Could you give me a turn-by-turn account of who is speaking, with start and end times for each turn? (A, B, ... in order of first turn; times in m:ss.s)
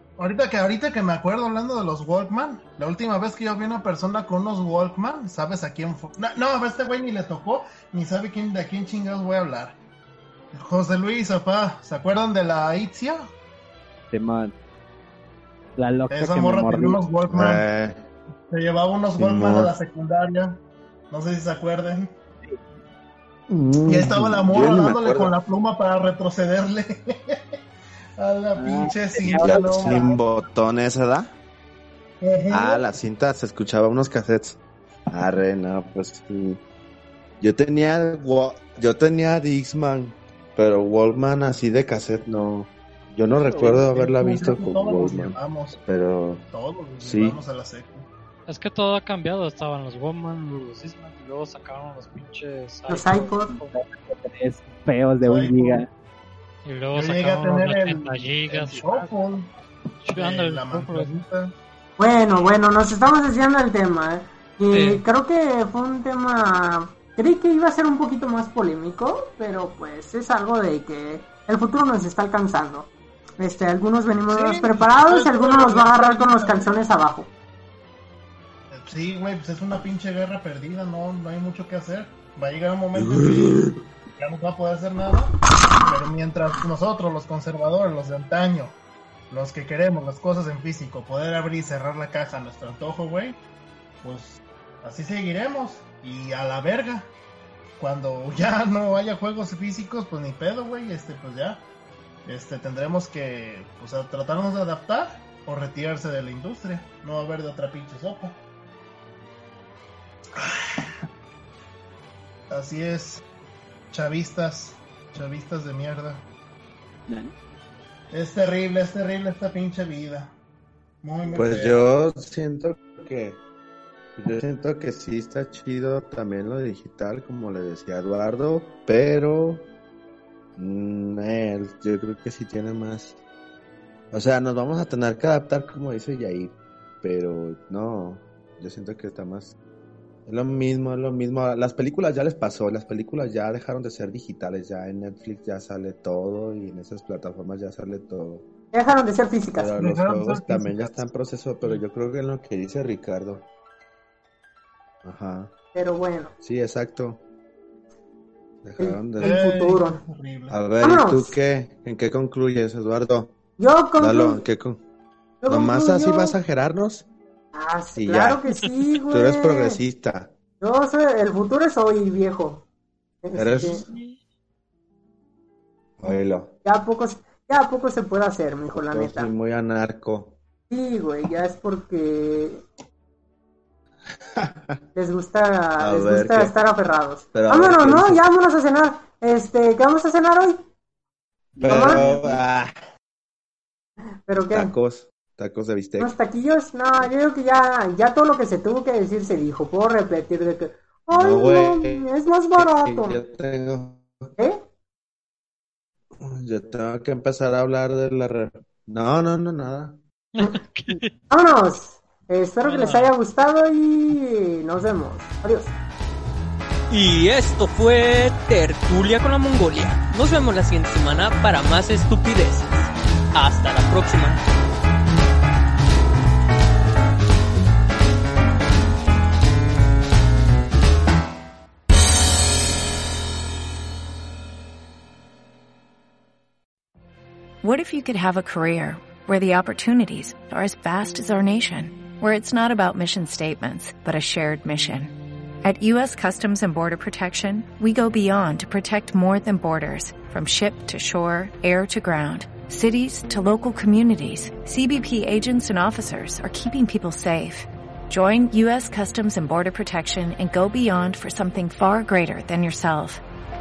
0:00.2-0:09.8 A
0:10.5-0:13.3 A
0:14.1-0:14.5 B
0:15.8-0:17.1 B
0:16.1-0:17.6 A
0:17.3-0:18.1 C
0:18.5-0:22.1 A
0:19.2-0:19.7 C
0:23.5-0:25.3 C
0:23.9-0:27.6 A
0:28.2-0:30.2 A
0:28.6-0:30.1 B
0:29.3-0:31.3 C
0:32.2-0:32.9 A
0:32.5-0:36.6 C
0:37.4-0:46.5 C
0:43.3-0:43.9 B
0:43.4-0:45.8 A
0:46.5-0:48.1 A
0:47.0-0:47.4 C
0:48.5-0:53.7 D
0:52.9-0:53.5 E
0:53.5-0:55.9 B
0:55.2-0:55.8 A
0:56.6-0:59.1 D
0:56.9-0:59.5 A
1:00.0-1:01.1 D
1:00.1-1:01.5 A
1:02.0-1:17.3 E
1:04.7-1:05.0 D
1:14.3-1:16.8 A
1:18.7-1:23.6 A
1:23.0-1:23.7 C
1:24.2-1:28.8 A
1:29.3-1:33.4 A
1:34.0-1:37.1 A
1:37.8-1:41.6 A
1:42.2-1:48.4 A
1:50.4-1:51.1 A
1:52.5-1:53.2 A
1:53.9-1:56.3 A
1:57.1-1:57.3 B
1:58.1-2:00.4 A
2:01.0-2:01.8 A
2:01.3-2:03.4 C
2:04.2-2:09.7 C
2:10.6-2:13.2 C
2:14.1-2:19.5 C
2:20.3-2:28.5 C
2:28.7-2:29.8 E
2:29.6-2:33.5 C
2:29.8-2:30.8 A
2:35.0-2:35.5 C
2:35.7-2:36.3 E
2:36.4-2:37.2 C
2:38.6-2:39.3 C
2:38.8-2:40.0 E
2:39.2-2:40.6 A
2:40.5-2:43.3 C
2:40.8-2:41.3 E
2:43.6-2:44.4 E
2:44.0-2:44.8 C
2:45.4-2:46.4 E
2:45.5-2:47.1 C
2:47.5-2:49.8 E
2:48.0-2:48.4 C
2:49.1-2:50.3 C
2:50.6-2:52.6 E
2:53.2-2:53.8 E
2:53.4-2:53.9 C
2:53.6-2:54.2 D
2:56.0-2:56.6 C
2:56.6-2:59.3 E
2:58.7-3:00.4 C
3:00.7-3:02.6 E
3:04.4-3:04.8 C
3:04.9-3:10.6 E
3:05.8-3:06.5 C
3:07.3-3:08.2 C
3:11.6-3:12.7 C
3:11.6-3:12.1 E
3:14.3-3:14.7 E
3:14.4-3:16.1 C
3:16.0-3:23.2 E
3:21.1-3:24.1 C
3:26.2-3:30.0 C
3:30.4-3:31.1 D
3:31.3-3:35.8 E
3:32.6-3:33.2 D
3:36.9-3:44.4 F
3:57.6-4:23.2 G